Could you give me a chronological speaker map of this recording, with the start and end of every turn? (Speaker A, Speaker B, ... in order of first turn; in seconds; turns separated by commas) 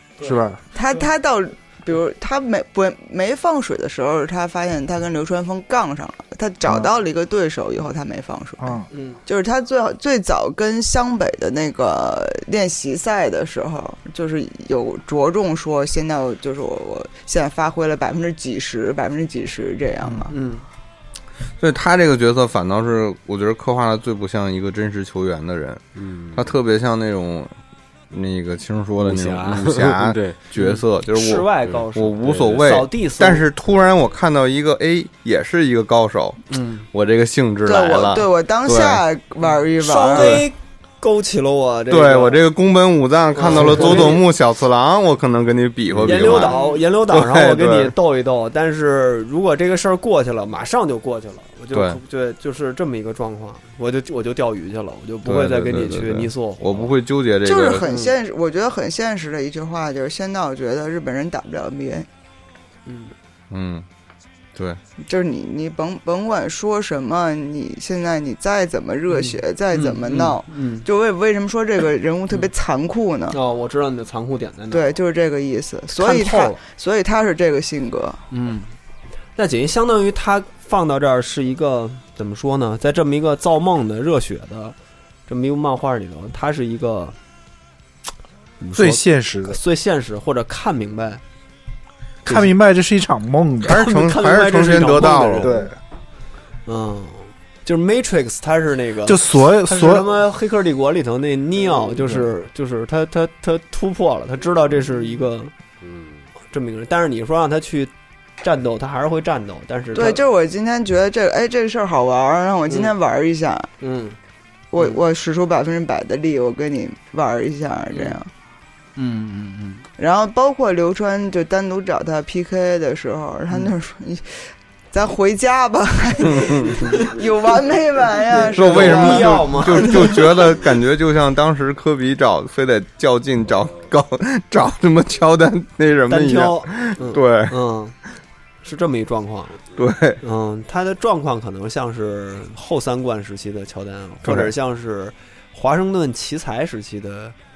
Speaker A: 0.2-1.1, Speaker B: 0.2-0.6, Speaker C: 0.7-20.3, Speaker B: 6.7-6.9, Speaker B: 8.6-8.9, Speaker A: 8.9-9.2, Speaker A: 20.1-20.6, Speaker D: 21.6-25.8, Speaker E: 26.0-26.5, Speaker D: 26.3-27.5, Speaker D: 28.1-36.4, Speaker E: 29.0-30.4, Speaker A: 30.6-33.5, Speaker E: 31.7-32.6, Speaker A: 36.5-36.9, Speaker D: 36.9-39.0, Speaker C: 37.6-40.5, Speaker A: 39.8-42.4, Speaker D: 40.1-40.4, Speaker D: 41.9-47.9, Speaker A: 43.3-44.3, Speaker A: 46.0-56.9, Speaker C: 46.4-46.8, Speaker D: 51.7-52.0, Speaker D: 55.2-57.9, Speaker C: 57.4-62.1, Speaker A: 57.9-58.1, Speaker A: 62.9-63.1, Speaker D: 63.5-63.9, Speaker C: 65.1-73.4, Speaker A: 69.1-70.9, Speaker A: 73.3-75.0, Speaker C: 74.7-78.2, Speaker A: 76.0-76.6, Speaker A: 78.3-78.7, Speaker A: 79.4-84.8, Speaker A: 85.3-87.2, Speaker A: 88.6-91.2, Speaker B: 88.7-89.6, Speaker A: 92.2-92.5, Speaker B: 92.2-93.9, Speaker A: 93.7-95.6, Speaker D: 93.7-95.6, Speaker B: 95.4-95.8, Speaker A: 96.7-105.5, Speaker B: 99.0-100.1, Speaker E: 105.8-106.2, Speaker A: 106.5-110.2, Speaker C: 110.0-113.7, Speaker A: 113.8-114.2, Speaker C: 114.7-118.3, Speaker A: 119.0-119.8, Speaker C: 120.0-124.4, Speaker C: 124.9-130.6, Speaker D: 126.3-126.8, Speaker A: 126.6-127.2, Speaker A: 128.3-130.2, Speaker D: 128.6-137.6, Speaker A: 136.1-137.9, Speaker A: 138.6-139.6, Speaker D: 139.8-140.2, Speaker A: 140.2-147.3, Speaker D: 144.2-144.5